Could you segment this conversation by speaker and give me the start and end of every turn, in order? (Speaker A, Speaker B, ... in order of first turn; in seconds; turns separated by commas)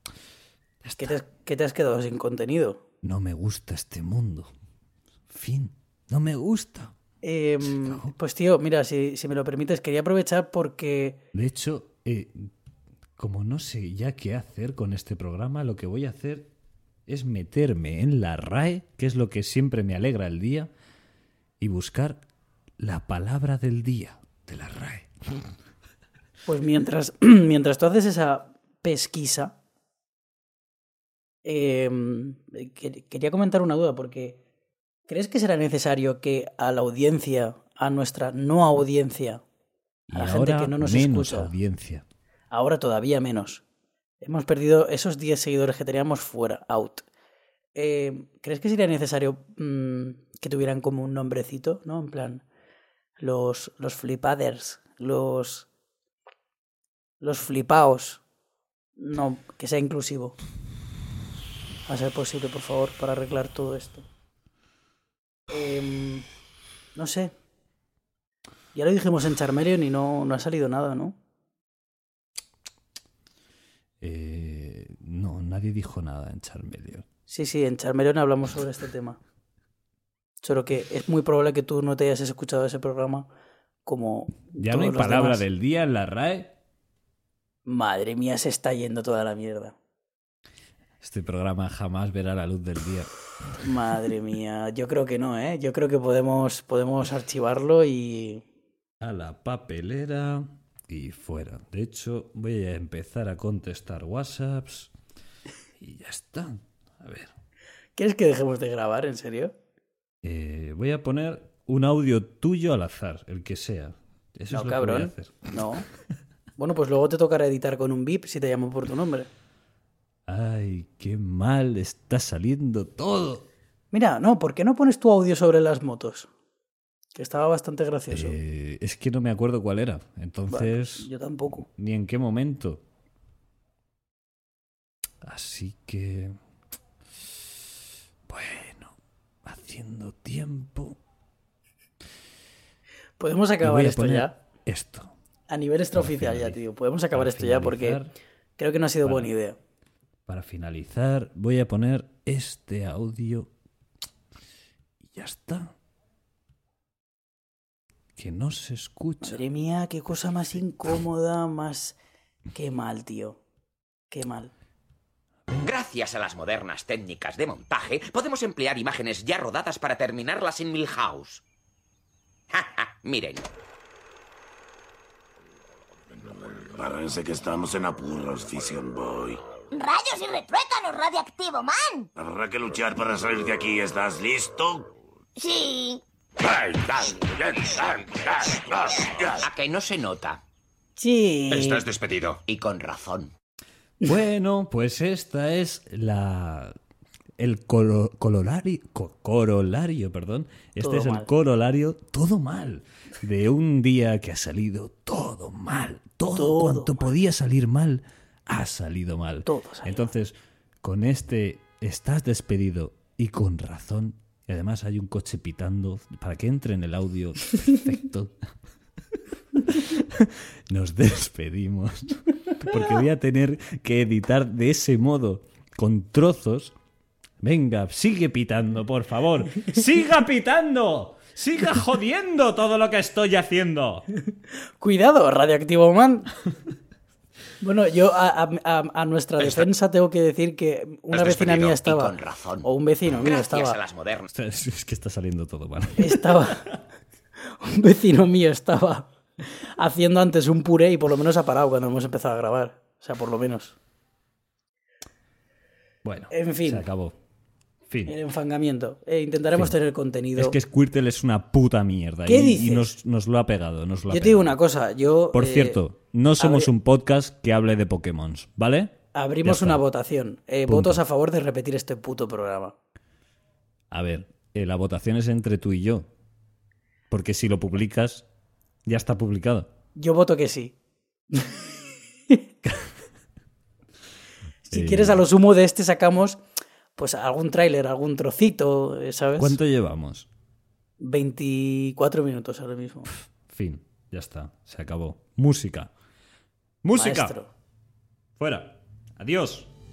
Speaker A: 0.8-1.2, Speaker B: 1.0-2.8, Speaker A: 3.0-4.5, Speaker A: 5.3-6.9, Speaker B: 7.2-11.2, Speaker A: 7.7-8.1, Speaker A: 11.3-12.5, Speaker A: 13.2-16.5, Speaker A: 17.1-20.7, Speaker A: 21.6-22.2, Speaker A: 22.8-25.5, Speaker B: 26.5-29.6, Speaker B: 31.4-34.4, Speaker B: 35.1-39.4, Speaker A: 40.1-42.0, Speaker B: 40.1-41.5, Speaker B: 42.5-43.6, Speaker B: 44.2-47.0, Speaker B: 47.7-52.4, Speaker B: 53.2-55.7, Speaker B: 57.2-58.2, Speaker B: 59.0-60.4, Speaker B: 61.9-64.0, Speaker B: 65.5-66.3, Speaker B: 66.9-67.3, Speaker B: 68.7-71.2, Speaker A: 74.0-77.0, Speaker B: 77.3-79.2, Speaker B: 80.4-83.3, Speaker B: 83.8-85.4, Speaker A: 84.6-86.5, Speaker B: 87.7-89.7, Speaker A: 91.0-93.1, Speaker B: 93.6-98.4, Speaker A: 99.0-104.9, Speaker A: 105.8-107.3, Speaker B: 108.0-109.5, Speaker A: 110.2-115.5, Speaker B: 114.5-115.9, Speaker B: 116.6-119.3, Speaker A: 120.3-123.5, Speaker B: 123.9-126.3, Speaker B: 127.1-128.3, Speaker A: 128.1-132.8, Speaker B: 130.5-131.7, Speaker A: 135.2-136.3, Speaker A: 138.3-141.0, Speaker B: 143.2-144.3, Speaker A: 143.6-145.1, Speaker B: 145.5-148.0, Speaker A: 145.9-146.6, Speaker A: 147.1-148.1, Speaker B: 148.6-149.6, Speaker A: 149.0-149.3, Speaker A: 150.3-153.5, Speaker A: 155.1-155.7, Speaker A: 158.2-159.4, Speaker B: 159.2-161.9, Speaker B: 162.5-163.4, Speaker B: 164.1-164.5, Speaker C: 165.6-171.4, Speaker C: 172.5-173.5, Speaker D: 176.3-179.4, Speaker E: 179.7-182.1, Speaker D: 182.2-184.9, Speaker E: 185.3-186.0, Speaker C: 186.4-188.6, Speaker C: 189.2-190.4, Speaker B: 191.0-191.9, Speaker C: 191.5-193.3, Speaker A: 194.0-196.7, Speaker A: 197.4-218.4, Speaker B: 200.8-201.3, Speaker B: 206.3-207.1, Speaker B: 209.4-210.1, Speaker A: 219.6-226.7, Speaker A: 227.4-234.1, Speaker B: 234.8-236.3, Speaker B: 237.6-243.8, Speaker C: 241.1-244.3, Speaker A: 244.3-246.7, Speaker B: 246.0-246.7, Speaker B: 247.6-253.8, Speaker A: 256.0-257.1, Speaker B: 256.3-256.8, Speaker A: 257.9-258.1, Speaker B: 258.1-260.5, Speaker A: 260.4-264.6, Speaker B: 262.2-262.9, Speaker B: 264.1-265.8, Speaker A: 265.3-269.8, Speaker B: 266.4-266.7, Speaker B: 269.1-272.7, Speaker A: 270.7-271.0, Speaker A: 273.9-276.1, Speaker A: 277.1-278.2, Speaker A: 278.9-279.7, Speaker B: 280.0-280.7, Speaker B: 281.3-281.7, Speaker B: 284.7-286.4, Speaker A: 284.7-285.2, Speaker B: 286.9-289.6, Speaker A: 289.4-290.3, Speaker B: 291.0-293.1, Speaker A: 293.5-295.9, Speaker A: 296.8-297.3, Speaker B: 296.9-297.5, Speaker A: 298.4-299.7